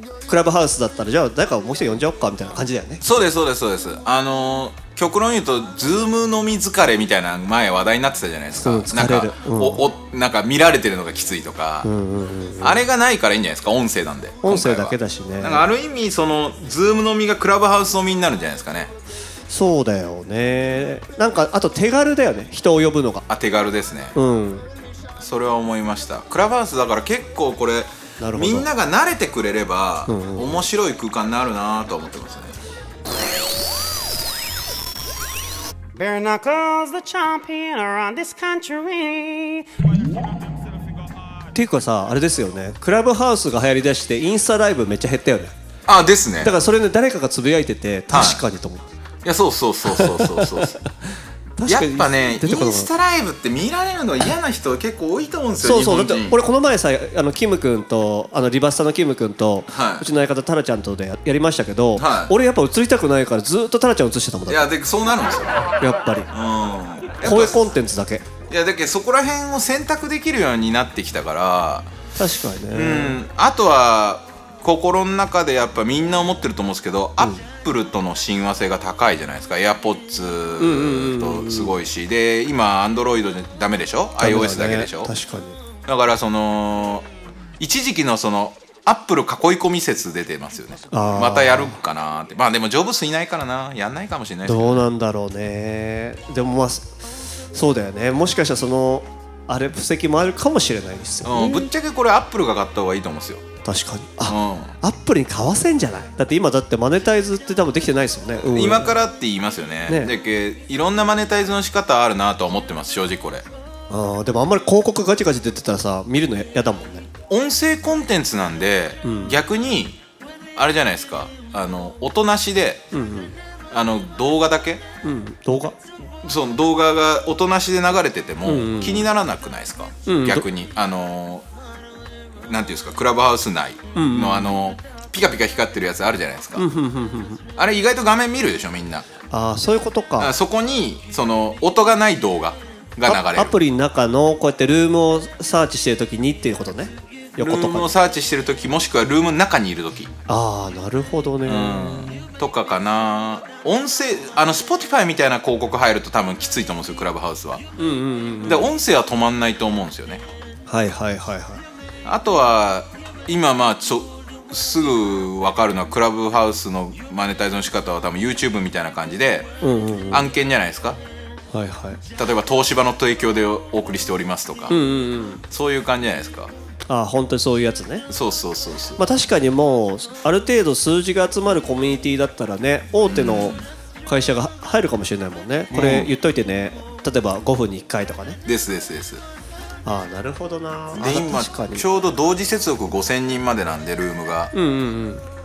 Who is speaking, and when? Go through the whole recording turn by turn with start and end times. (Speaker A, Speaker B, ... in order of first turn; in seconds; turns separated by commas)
Speaker A: 0.3-3.0, Speaker B: 3.0-11.9, Speaker A: 8.6-9.9, Speaker A: 11.8-12.8, Speaker B: 12.6-18.9, Speaker A: 14.4-15.7, Speaker A: 19.5-23.2, Speaker B: 23.3-24.1, Speaker A: 24.1-24.7, Speaker B: 25.2-32.6, Speaker A: 28.2-28.7, Speaker A: 30.1-30.7, Speaker C: 36.0-39.7, Speaker A: 41.5-45.5, Speaker B: 45.9-46.5, Speaker A: 46.4-48.9, Speaker B: 48.1-48.4, Speaker B: 49.2-50.8, Speaker A: 49.9-51.1, Speaker A: 51.6-52.9, Speaker B: 51.6-56.4, Speaker A: 55.6-64.7, Speaker B: 59.7-60.1, Speaker B: 62.0-62.3, Speaker B: 64.5-65.7, Speaker A: 65.8-66.3, Speaker B: 66.3-67.7, Speaker A: 67.2-68.2, Speaker B: 68.5-71.9, Speaker A: 72.2-73.2, Speaker B: 72.7-85.1, Speaker A: 77.2-77.5, Speaker A: 80.6-81.8, Speaker A: 84.2-85.6, Speaker B: 85.9-87.1, Speaker B: 87.6-94.8, Speaker A: 90.9-91.8, Speaker A: 94.5-101.7, Speaker B: 101.2-103.4, Speaker A: 103.6-109.0, Speaker B: 104.3-104.8, Speaker B: 108.5-113.5, Speaker A: 113.9-117.1, Speaker B: 117.3-120.0, Speaker A: 119.0-119.4, Speaker B: 120.6-122.8, Speaker A: 122.9-123.4, Speaker B: 123.7-124.8, Speaker A: 125.0-125.8, Speaker B: 126.2-131.4, Speaker A: 128.4-129.1, Speaker A: 130.1-130.4, Speaker B: 132.5-136.7, Speaker A: 133.9-134.6, Speaker A: 136.6-137.4, Speaker B: 137.6-139.1, Speaker A: 139.3-140.3, Speaker B: 140.2-143.6, Speaker A: 143.0-147.9, Speaker B: 147.4-150.1, Speaker A: 150.3-152.3, Speaker B: 151.5-157.7, Speaker A: 157.8-158.7, Speaker B: 158.4-160.2, Speaker A: 160.7-161.6, Speaker B: 162.1-169.5, Speaker A: 169.6-170.3, Speaker B: 170.1-171.0, Speaker A: 171.5-172.0, Speaker B: 172.2-174.8, Speaker A: 174.7-175.4, Speaker B: 175.5-176.5, Speaker A: 176.9-178.1, Speaker B: 178.1-179.0, Speaker A: 179.0-188.4, Speaker B: 183.1-183.7, Speaker B: 185.7-186.1, Speaker B: 188.4-189.2, Speaker A: 189.9-191.9, Speaker B: 190.9-194.5, Speaker A: 194.5-195.2